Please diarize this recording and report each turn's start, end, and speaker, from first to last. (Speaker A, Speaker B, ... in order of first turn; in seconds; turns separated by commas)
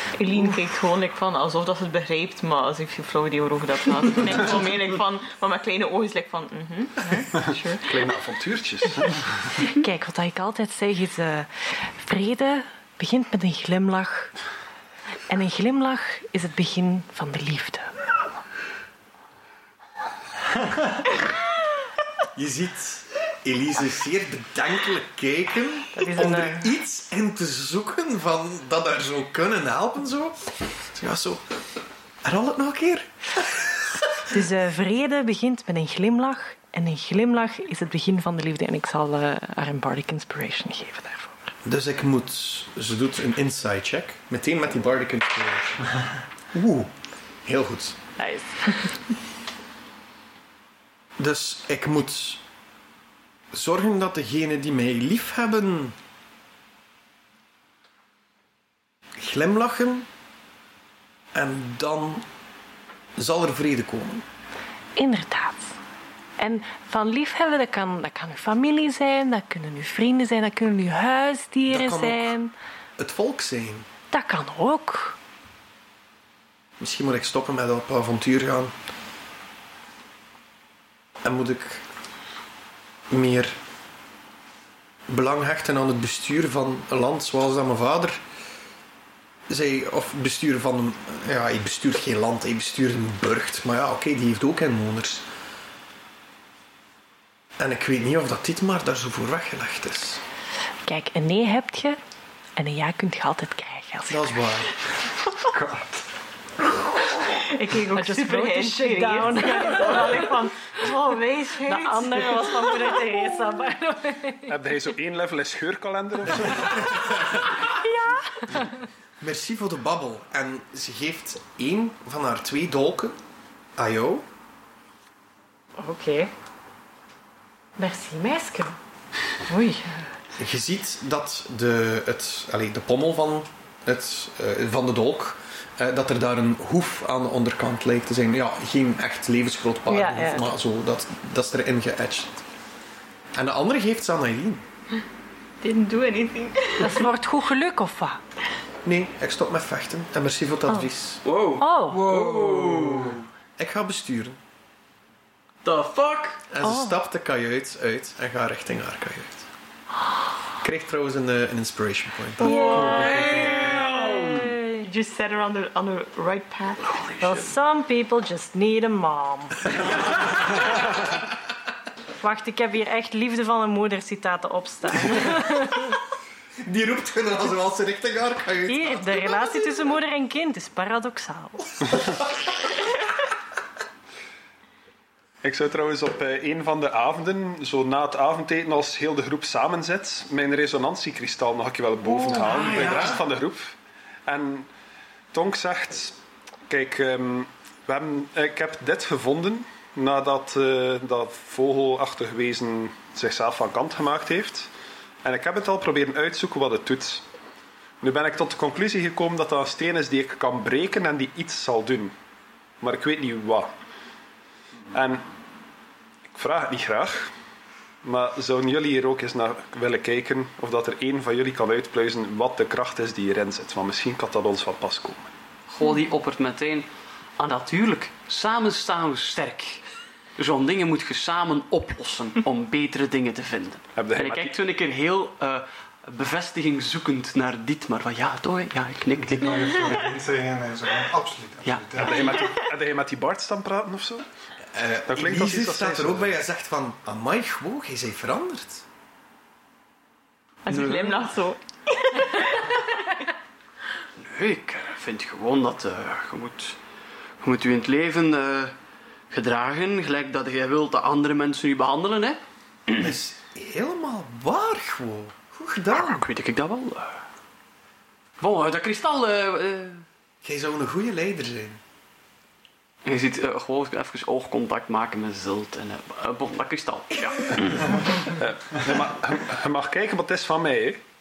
Speaker A: 0.2-8.1, Speaker B: 7.3-9.6, Speaker C: 9.6-14.3, Speaker C: 15.3-18.0, Speaker D: 22.4-31.4, Speaker C: 25.9-26.7, Speaker D: 32.2-34.2, Speaker C: 34.3-41.5, Speaker D: 41.6-46.0, Speaker D: 46.5-46.9, Speaker D: 47.5-48.0, Speaker C: 48.2-49.0, Speaker D: 51.2-52.4, Speaker D: 53.5-56.0, Speaker D: 59.2-60.1, Speaker D: 61.3-62.2, Speaker D: 63.2-64.2, Speaker C: 65.0-65.7, Speaker C: 66.4-72.5, Speaker D: 71.7-72.3, Speaker D: 73.0-73.9, Speaker C: 74.1-75.2, Speaker D: 76.8-78.7, Speaker D: 81.2-81.8, Speaker D: 83.1-83.6, Speaker D: 85.1-88.2, Speaker D: 89.5-95.2, Speaker D: 97.6-100.2, Speaker C: 100.9-102.0, Speaker C: 102.6-104.3, Speaker D: 104.1-104.8, Speaker E: 105.5-106.1, Speaker C: 107.4-110.4, Speaker A: 107.9-113.4, Speaker C: 111.6-114.6, Speaker B: 114.5-117.3, Speaker D: 116.9-117.4, Speaker C: 117.7-118.7, Speaker D: 119.2-123.2, Speaker D: 123.8-124.2, Speaker C: 125.8-126.3, Speaker C: 127.8-128.8, Speaker C: 129.5-130.1, Speaker D: 130.4-142.4, Speaker C: 139.9-140.5, Speaker D: 143.3-144.6, Speaker A: 145.6-147.1, Speaker C: 146.8-148.2, Speaker D: 148.8-151.2, Speaker F: 151.2-153.2, Speaker C: 151.6-152.0, Speaker E: 151.9-153.2, Speaker D: 153.6-154.4, Speaker F: 155.6-156.4, Speaker D: 156.5-159.5, Speaker D: 160.6-163.8, Speaker A: 162.4-163.3, Speaker C: 162.4-164.9, Speaker F: 162.5-164.6, Speaker A: 164.8-167.0, Speaker F: 166.8-167.5, Speaker C: 167.2-169.8, Speaker C: 172.2-176.0, Speaker D: 176.6-179.4, Speaker C: 178.7-181.8, Speaker B: 185.4-193.8, Speaker D: 192.3-193.2, Speaker B: 194.3-194.7, Speaker B: 195.3-204.7, Speaker B: 205.2-207.2, Speaker B: 208.0-212.1, Speaker B: 212.8-213.7, Speaker B: 214.9-215.2, Speaker B: 216.3-217.3, Speaker B: 218.0-225.3, Speaker F: 225.7-226.9, Speaker F: 227.4-229.8, Speaker F: 230.4-240.0, Speaker B: 234.0-234.5, Speaker E: 239.2-242.4, Speaker F: 241.7-242.5, Speaker B: 242.0-244.2, Speaker D: 244.7-248.8, Speaker B: 245.1-246.3, Speaker A: 250.7-252.9, Speaker F: 250.7-251.3, Speaker F: 254.2-256.8, Speaker F: 257.4-258.7, Speaker F: 259.3-262.4, Speaker D: 262.9-266.2, Speaker F: 265.9-267.2, Speaker F: 268.4-270.1, Speaker D: 270.4-271.8, Speaker F: 273.1-278.1, Speaker B: 277.6-281.0